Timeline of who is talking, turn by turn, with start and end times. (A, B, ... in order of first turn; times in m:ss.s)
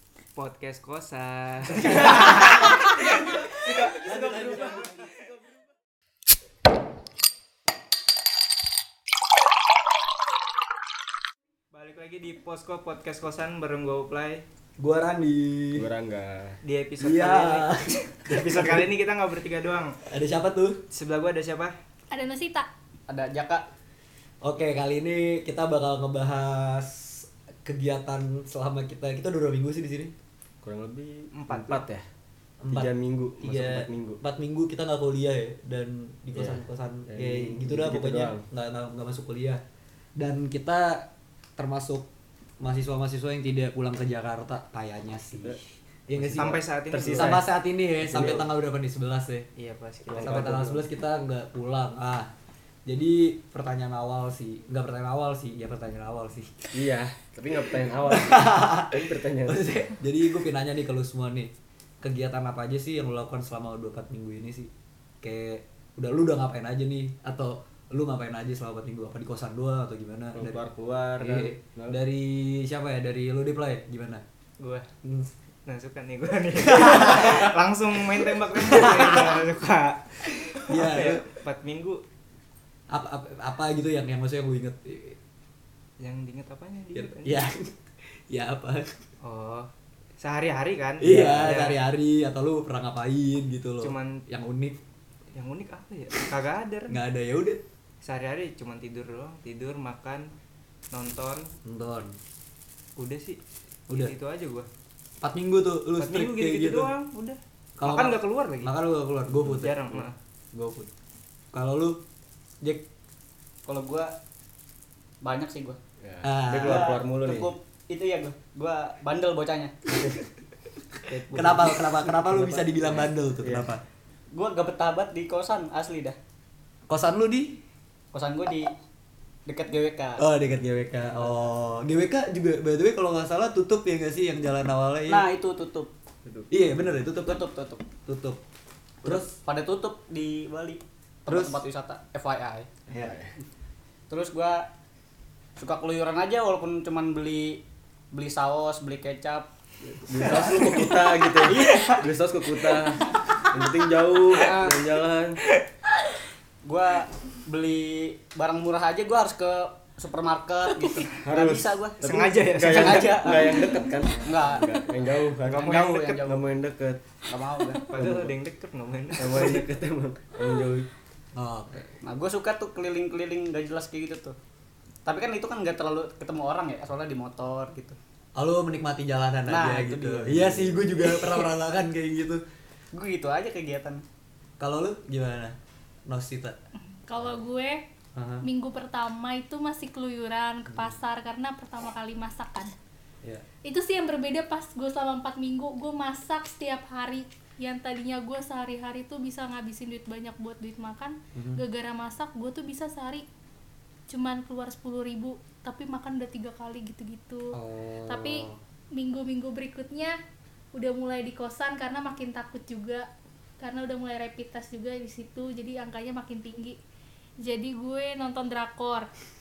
0:00.3-0:05.1 A
0:01.8-0:05.0 B
0:03.5-0:05.4 C
0:11.7-0:14.4 A
0:14.8-0:15.8 B
0:15.7-0:16.6 C
0:16.6-0:20.0 A
0:17.0-0:18.9 B
0:20.1-0:20.8 B
0:20.9-0:21.8 A
0:22.1-0:22.7 D
0:23.1-0:23.7 E
0:24.4-0:30.1 B
0:30.6-0:32.1 C
0:31.3-0:31.8 A
0:32.6-0:39.6 B
0:32.7-0:34.2 C
0:36.3-0:38.4 C
0:40.2-0:42.1 B
0:42.6-0:46.6 B
0:46.1-0:47.5 C
0:46.4-0:47.4 A
0:47.1-0:49.5 B
0:48.0-0:48.4 C
0:49.6-0:50.7 A
0:50.1-0:50.8 C
0:50.2-0:52.3 B
0:52.8-0:56.6 B
0:56.7-0:59.7 C
0:58.1-1:04.7 B
1:05.2-1:10.6 B
1:10.3-1:12.0 C
1:11.2-1:14.2 B
1:14.6-1:14.9 A
1:15.0-1:15.3 B
1:15.6-1:22.0 A
1:16.7-1:17.4 B
1:18.5-1:19.4 B
1:20.6-1:21.2 B
1:22.9-1:25.2 B
1:26.0-1:27.4 A
1:26.9-1:27.8 B
1:28.3-1:29.0 B
1:29.2-1:29.7 A
1:30.2-1:31.8 A
1:31.0-1:34.8 B
1:31.0-1:31.5 C
1:33.8-1:34.2 A
1:35.3-1:37.0 A
1:36.9-1:37.6 B
1:38.0-1:40.3 A
1:40.9-1:41.5 A
1:41.6-1:42.2 B
1:43.0-1:44.7 A
1:43.9-1:44.1 B
1:45.2-1:46.9 B
1:46.0-1:48.7 A
1:47.8-1:49.8 B
1:49.4-1:50.2 A
1:50.5-1:50.9 B
1:51.5-1:52.0 B
1:53.6-1:54.1 E
1:55.2-1:55.8 E
1:56.0-1:57.5 C
1:56.2-1:56.9 B
1:56.6-1:59.7 E
2:01.1-2:03.7 C
2:01.3-2:03.8 B
2:04.3-2:06.2 E
2:06.9-2:07.6 B
2:08.1-2:08.7 E
2:09.4-2:10.2 E
2:10.2-2:15.3 B
2:11.0-2:11.3 C
2:15.1-2:15.9 E
2:16.5-2:17.4 B
2:17.2-2:17.8 E
2:18.0-2:18.4 B
2:19.0-2:19.3 B
2:19.0-2:22.7 E
2:21.3-2:21.6 B
2:22.9-2:23.3 C
2:24.1-2:24.6 E
2:25.6-2:27.6 E
2:28.1-2:29.5 E
2:30.0-2:35.4 C
2:31.3-2:32.0 E
2:34.3-2:34.8 E
2:36.6-2:42.0 E
2:41.2-2:47.0 C
2:42.0-2:43.9 A
2:42.6-2:44.7 E
2:45.4-2:46.4 E
2:45.5-2:46.2 A
2:47.3-2:47.8 E
2:47.8-2:49.6 A
2:47.9-2:48.4 C
2:49.2-2:50.9 C
2:51.3-2:51.9 B
2:52.0-2:54.4 E
2:55.0-2:58.0 E
2:58.4-3:02.4 B
2:59.5-3:01.5 E
3:02.9-3:04.0 E
3:04.6-3:05.6 B
3:06.1-3:06.6 B
3:07.0-3:07.8 D
3:08.1-3:08.4 B
3:08.4-3:12.7 D
3:13.6-3:23.2 D
3:21.3-3:21.6 B
3:24.1-3:30.2 D
3:27.5-3:28.6 B
3:30.7-3:33.1 D
3:33.6-3:36.8 D
3:37.4-3:39.1 D